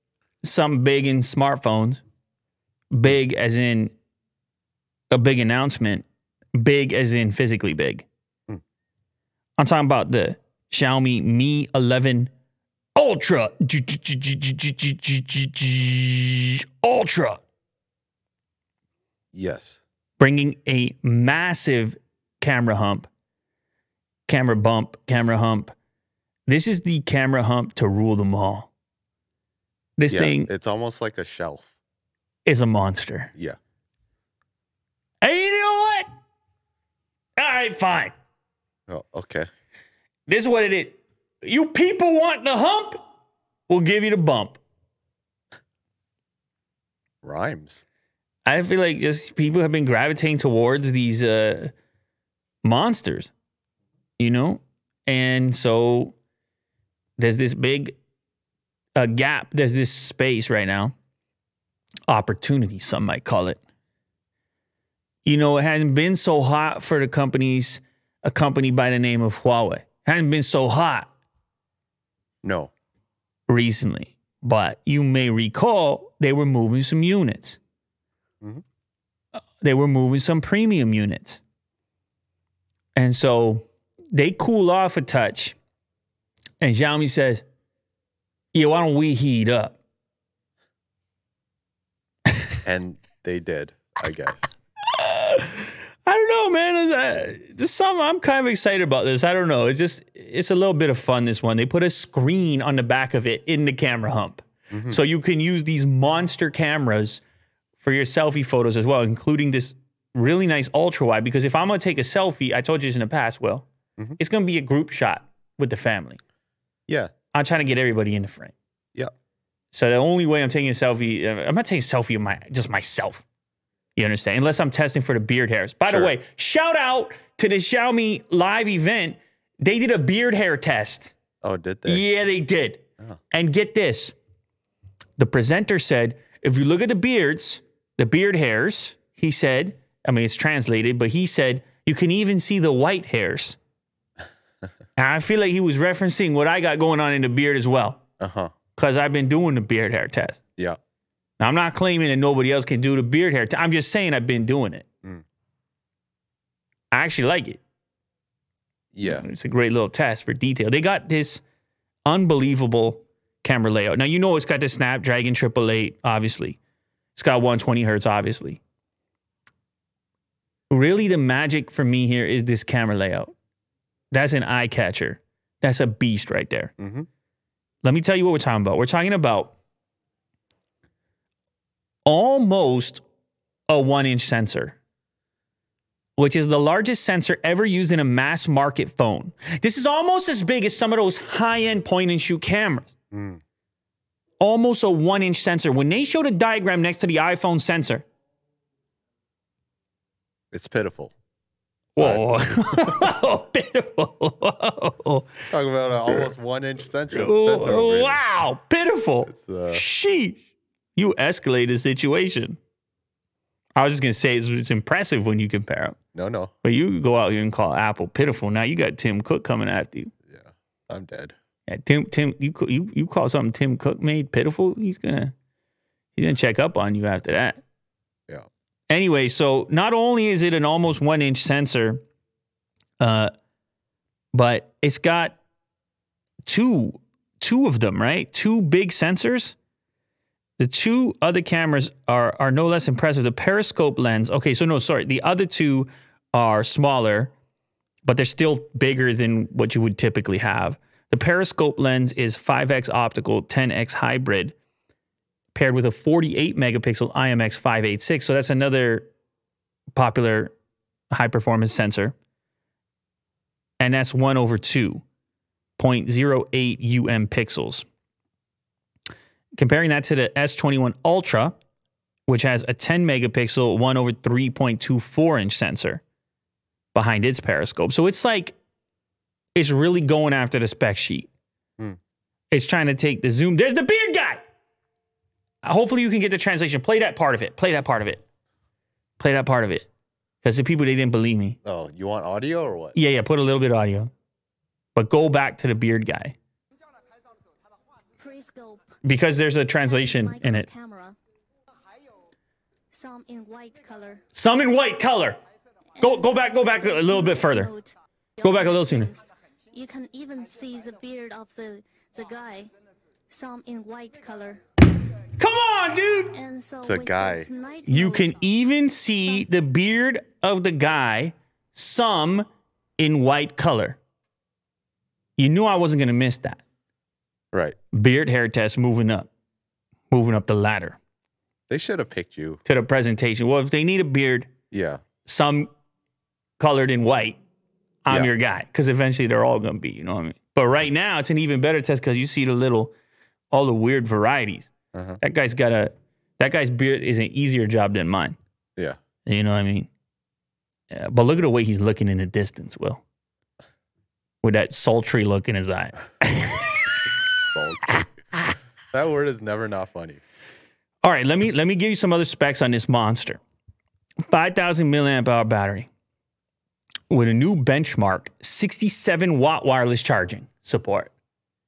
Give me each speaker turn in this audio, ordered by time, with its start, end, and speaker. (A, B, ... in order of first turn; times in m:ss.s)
0:00.4-0:02.0 A
0:02.9-0:03.9 A
0:05.1-0:08.1 A
0:09.6-0:12.3 A
0:13.0-0:17.4 A
0:19.3-0:19.8 B
0:20.2-0:23.1 A
0:24.3-0:25.7 A
0:26.5-0:28.7 A
0:30.0-0:30.5 A
0:30.1-0:31.7 B
0:32.5-0:33.3 A
0:35.2-0:36.1 A
0:37.4-0:38.1 A
0:38.9-0:39.5 B
0:40.3-0:43.0 A
0:43.7-0:44.6 A
0:47.2-0:47.8 B
0:48.5-0:51.7 A
0:52.6-0:53.3 A
0:54.2-0:56.2 A
0:57.2-0:58.0 A
0:59.0-1:01.0 A
1:02.1-1:03.6 A
1:05.2-1:11.1 A
1:12.4-1:12.7 B
1:13.5-1:17.6 A
1:19.4-1:21.4 A
1:23.0-1:25.6 A
1:26.6-1:27.4 A
1:28.5-1:29.8 A
1:32.6-1:34.4 B
1:34.9-1:47.2 A
1:44.7-1:45.0 B
1:47.8-1:53.7 A
1:54.2-1:56.2 A
1:57.3-1:58.5 A
1:59.7-2:03.2 A
2:04.0-2:11.1 A
2:05.9-2:06.1 B
2:11.4-2:12.1 B
2:11.9-2:14.2 A
2:15.2-2:23.6 A
2:25.0-2:28.0 A
2:28.2-2:28.5 B
2:28.8-2:30.4 A
2:31.4-2:34.9 A
2:36.9-2:37.6 A
2:38.9-2:39.3 B
2:39.0-2:41.4 A
2:42.1-2:46.6 A
2:47.2-2:48.6 A
2:50.7-2:53.3 A
2:54.1-2:56.7 A
2:56.8-2:57.1 B
2:57.8-2:59.5 A
3:02.1-3:03.0 A
3:03.7-3:04.8 A
3:06.2-3:12.9 A
3:13.1-3:13.4 B
3:14.4-3:18.1 A
3:20.5-3:21.1 B
3:22.0-3:25.5 A
3:22.0-3:23.1 B
3:25.5-3:28.2 B
3:27.1-3:30.4 A
3:29.3-3:29.8 B
3:31.0-3:32.6 A
3:33.8-3:36.0 A
3:36.2-3:36.5 B
3:36.6-3:40.1 A
3:40.3-3:41.3 B
3:41.7-3:45.3 A
3:46.2-3:47.6 A
3:48.9-3:52.0 A
3:53.0-3:53.3 A
3:54.3-3:55.4 A
3:56.5-3:59.6 A
4:00.6-4:07.3 A
4:08.0-4:14.6 A
4:15.5-4:19.1 A
4:20.0-4:20.5 A
4:21.1-4:22.2 A
4:23.8-4:25.0 A
4:25.8-4:27.9 A
4:29.6-4:31.6 A
4:32.3-4:36.0 A
4:36.9-4:38.6 A
4:39.6-4:41.3 A
4:42.5-4:44.4 A
4:45.6-4:48.2 A
4:49.2-4:49.9 A
4:50.4-4:51.6 A
4:51.6-4:53.0 B
4:53.0-4:54.1 A
4:55.0-4:56.4 A
4:58.2-4:59.0 C
4:59.0-5:00.7 A
4:59.9-5:01.2 C
5:02.9-5:04.2 C
5:04.3-5:05.4 A
5:06.0-5:12.7 C
5:06.0-5:07.7 A
5:08.4-5:09.1 A
5:13.3-5:14.8 C
5:15.4-5:16.4 A
5:16.3-5:18.4 C
5:16.8-5:17.5 B
5:17.9-5:24.0 A
5:25.4-5:26.6 A
5:27.5-5:27.8 B
5:27.9-5:29.3 A
5:30.1-5:31.0 A
5:31.7-5:32.6 B
5:32.6-5:34.5 A
5:34.7-5:35.0 B
5:35.2-5:35.7 A
5:36.6-5:37.4 A
5:38.0-5:42.9 A
5:43.5-5:48.4 A
5:44.9-5:45.2 B
5:49.3-5:49.9 A
5:50.9-5:53.0 A
5:54.4-5:57.0 A
5:57.4-5:58.0 B
5:58.9-6:00.2 B
6:01.0-6:03.4 A
6:04.2-6:05.9 A
6:07.1-6:11.1 A